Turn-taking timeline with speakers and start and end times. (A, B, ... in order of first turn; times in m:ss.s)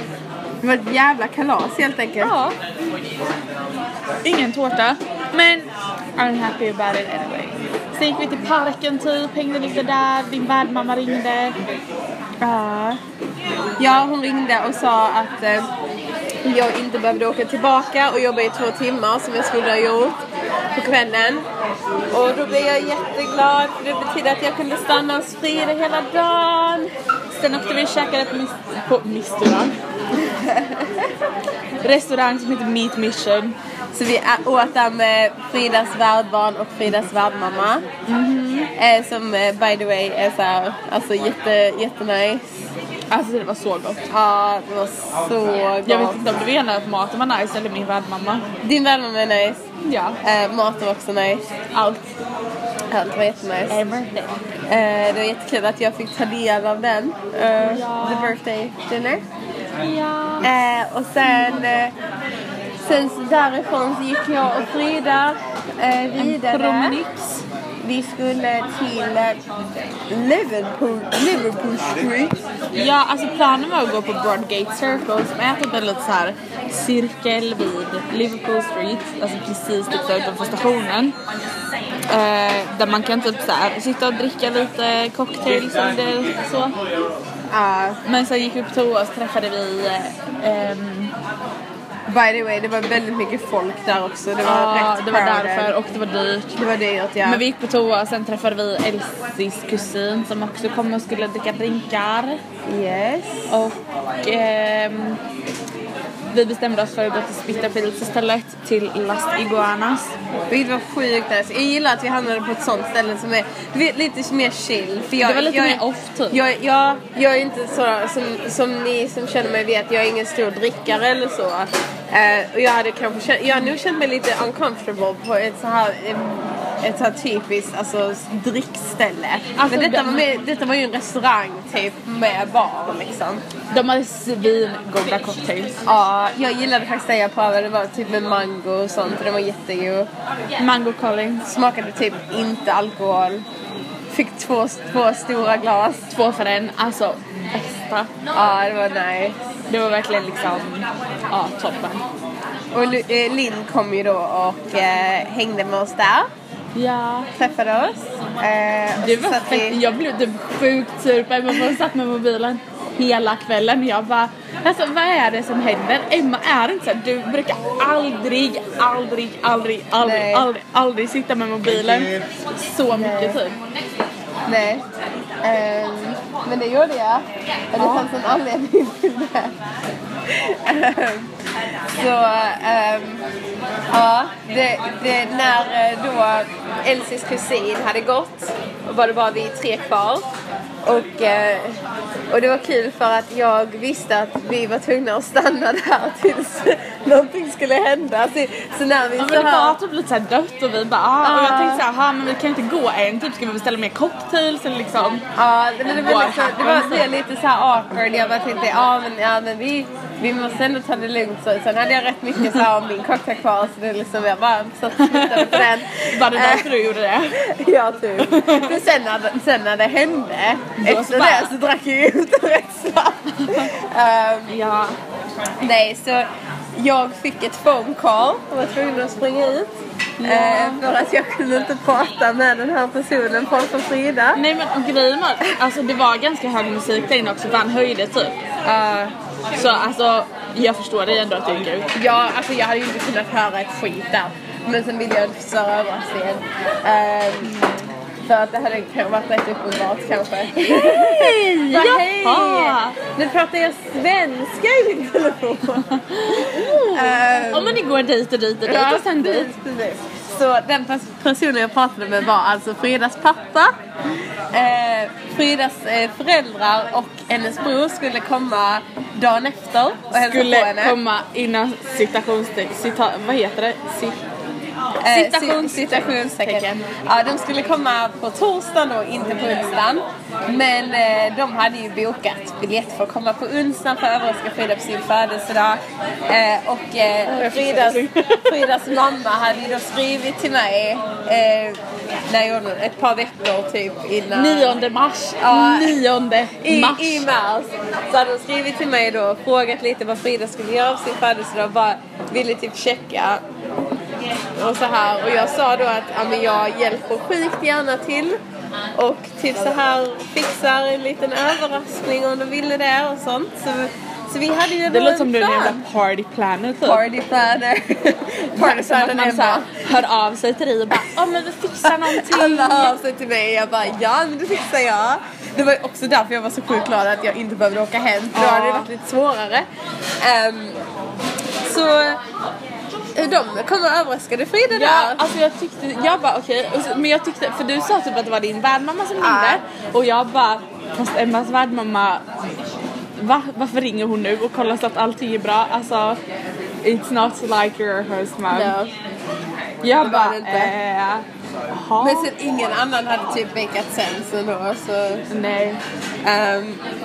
0:00.6-0:02.3 A
0:02.2-0:02.6 B
0:04.2-0:11.6 B
0:12.4-0:13.0 A
0:13.8-0:15.7 A
0:16.4-0:20.2 A
0:20.7-0:21.4 A
0:22.1-0:26.9 A
0:27.3-0:29.8 B
0:30.2-0:31.0 A
0:31.8-0:33.6 B
0:33.9-0:37.9 A
0:38.0-0:38.7 B
0:38.8-0:42.4 A
0:43.1-0:44.0 B
0:44.1-0:46.2 A
0:45.8-0:48.5 B
0:48.6-0:49.6 A
0:49.8-0:50.2 B
0:50.2-0:52.0 A
0:52.9-0:53.8 A
0:53.7-0:54.3 B
0:54.7-0:59.2 A
0:57.6-0:58.4 B
0:59.8-1:00.5 B
1:00.4-1:01.9 A
1:02.8-1:07.0 A
1:06.2-1:07.4 B
1:07.8-1:09.4 A
1:10.1-1:12.3 A
1:12.7-1:21.2 B
1:22.1-1:26.8 B
1:27.5-1:28.0 A
1:28.0-1:31.1 B
1:32.1-1:35.7 A
1:34.4-1:36.6 B
1:36.6-1:37.4 A
1:37.2-1:42.4 B
1:42.7-1:43.5 A
1:43.5-1:45.2 B
1:46.3-1:50.1 B
1:50.5-2:13.4 A
1:55.2-1:56.4 B
2:09.6-2:10.3 B
2:13.7-2:15.8 B
2:15.8-2:20.1 A
2:20.6-2:21.4 B
2:21.4-2:23.4 A
2:24.1-2:26.1 A
2:26.1-2:28.1 B
2:28.3-2:29.3 A
2:29.7-2:32.0 B
2:32.7-2:36.3 A
2:36.7-2:37.3 B
2:37.3-2:39.8 A
2:39.0-2:53.6 B
2:50.0-2:50.5 A
2:52.9-2:53.4 A
2:54.5-2:54.8 A
2:55.4-2:59.5 A
2:57.8-2:58.1 B
3:00.3-3:01.3 A
3:01.9-3:03.2 A
3:03.9-3:10.2 A
3:10.8-3:11.8 A
3:12.3-3:19.8 A
3:19.2-3:25.2 B
3:21.2-3:21.8 A
3:25.3-3:36.8 A
3:25.8-3:27.0 B
3:35.0-3:37.4 B
3:37.3-3:44.6 A
3:38.2-3:38.8 B
3:40.8-3:41.5 B
3:43.4-3:43.7 B
3:44.5-3:45.0 B
3:45.6-3:49.7 A
3:50.2-3:50.8 B
3:50.2-3:54.4 A
3:54.3-4:01.9 B
4:01.9-4:07.6 A
4:07.4-4:07.9 B
4:08.2-4:17.8 A
4:10.5-4:13.0 B
4:15.9-4:19.5 B
4:18.6-4:23.7 A
4:24.5-4:31.0 A
4:30.1-4:34.2 B
4:35.0-4:54.8 A
4:35.1-4:36.9 B
4:47.2-4:48.8 B
4:54.3-4:57.3 B
4:55.4-4:56.0 A
4:56.6-5:03.4 A
5:04.5-5:08.4 A
5:09.0-5:15.8 A
5:14.9-5:17.0 B
5:16.8-5:19.8 A
5:18.5-5:22.9 B
5:21.8-5:29.6 A
5:28.3-5:28.9 B
5:30.2-5:30.8 A
5:31.6-5:32.2 A
5:33.1-5:35.2 A
5:34.7-5:42.2 B
5:39.2-5:39.6 A
5:43.2-5:46.2 B
5:46.8-5:48.7 B
5:48.5-5:48.9 A
5:49.8-5:52.3 B
5:50.0-5:50.7 A
5:52.0-5:55.3 A
5:55.3-5:55.8 B
5:56.2-5:56.8 A